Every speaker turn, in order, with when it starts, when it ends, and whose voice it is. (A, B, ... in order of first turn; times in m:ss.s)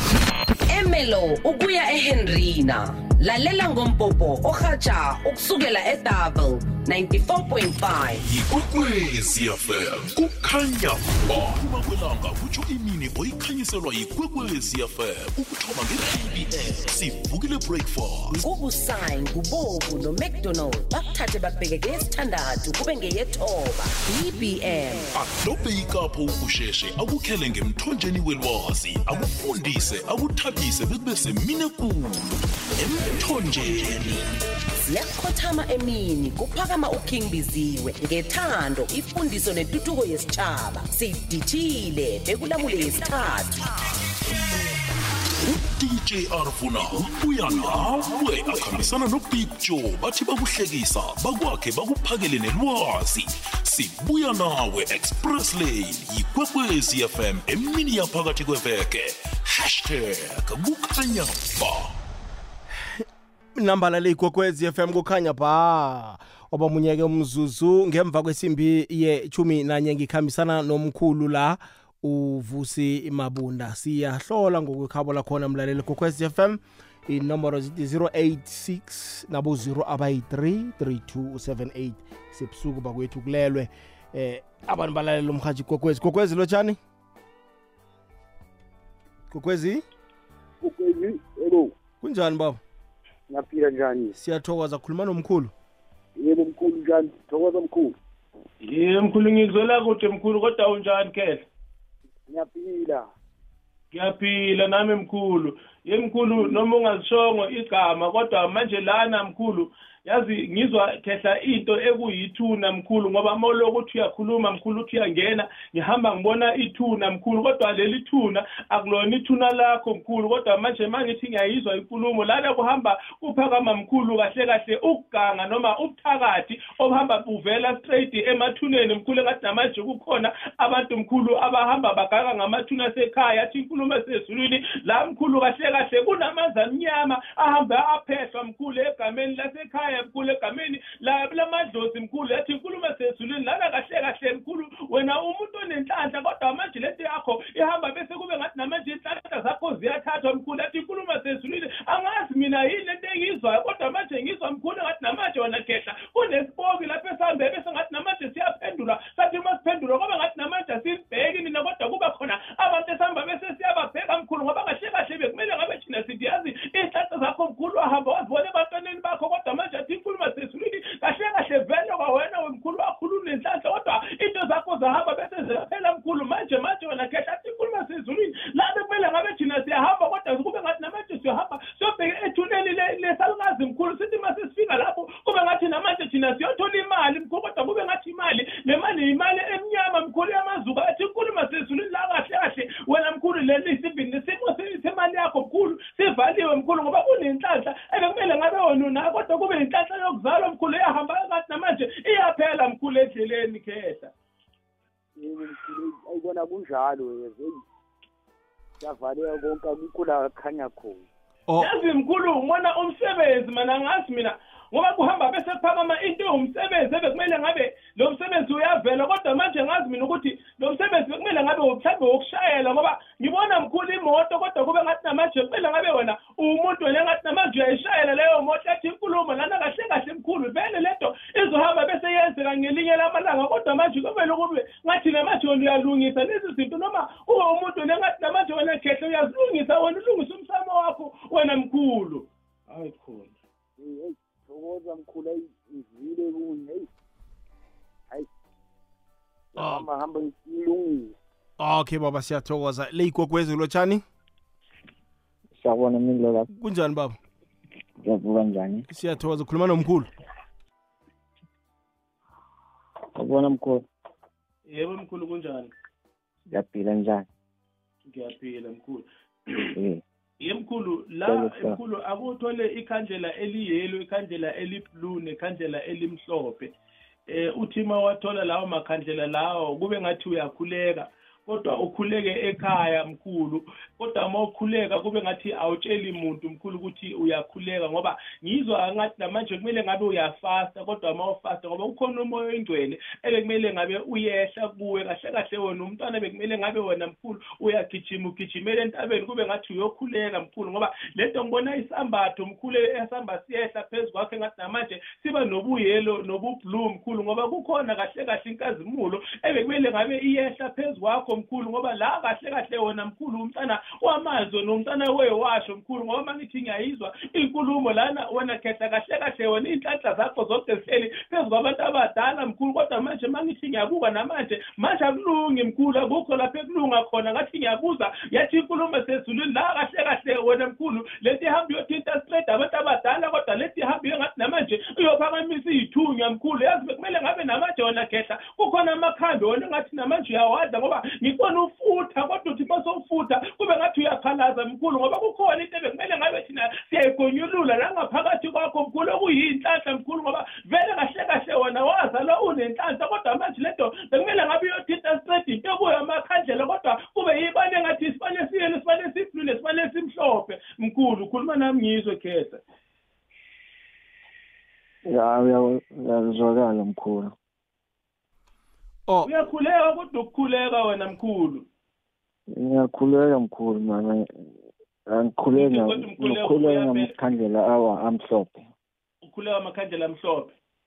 0:00.7-0:08.2 A
0:08.3-0:18.4 B
0:18.3-0:25.1 A
0:25.1-0:34.2 B
0:34.8-0:43.7 A
0:45.5-1:02.0 B
1:03.6-1:26.8 C
1:29.3-1:29.8 C
1:30.6-1:31.7 D
1:32.0-1:32.6 C
1:33.3-1:34.2 D
1:34.1-1:35.5 C
1:36.2-1:38.0 D
1:38.6-1:41.4 E
1:42.3-1:43.1 D
1:43.9-3:24.1 E
3:25.2-3:27.6 D
3:28.8-3:31.0 D
3:31.6-4:03.3 E
4:03.8-4:06.9 D
4:09.6-4:11.1 D
4:09.6-4:09.9 C
4:11.6-4:14.0 C
4:15.6-4:16.5 F
4:16.5-4:17.2 C
4:18.0-4:18.9 F
4:18.9-4:20.1 C
4:23.2-4:23.8 F
4:24.7-4:25.7 E
4:26.5-4:27.3 F
4:28.1-4:29.7 E
4:29.8-4:30.0 F
4:30.4-4:36.7 E
4:31.2-4:31.8 F
4:37.3-6:02.6 E
6:05.1-6:07.3 F
6:09.2-6:11.7 E
6:12.5-6:14.5 F
6:15.1-6:18.6 F
6:15.5-6:17.1 E
6:19.2-6:20.5 E